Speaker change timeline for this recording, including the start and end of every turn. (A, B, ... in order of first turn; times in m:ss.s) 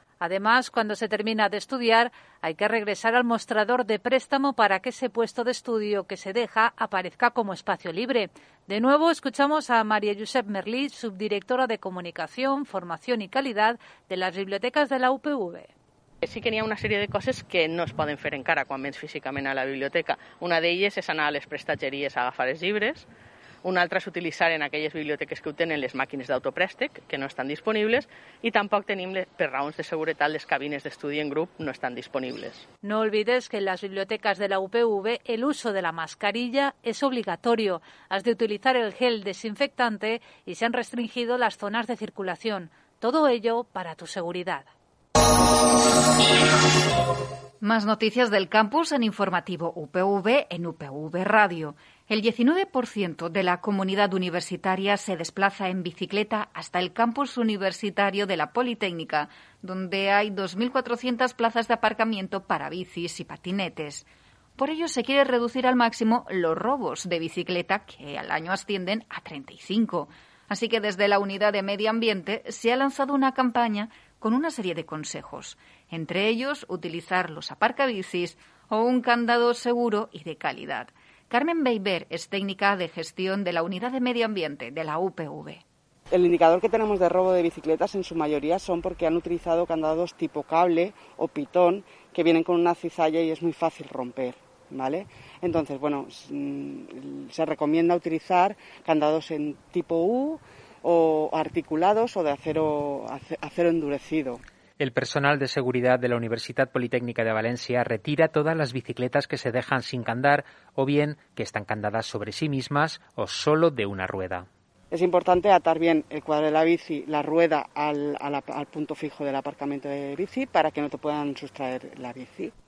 0:00.2-0:15.7 A
0:16.2-0:23.1 B
0:23.6-0:32.6 B
0:32.8-0:44.7 A
0:47.6-1:25.6 C
1:26.1-1:44.4 D
1:44.8-1:54.5 E
1:54.9-2:02.5 D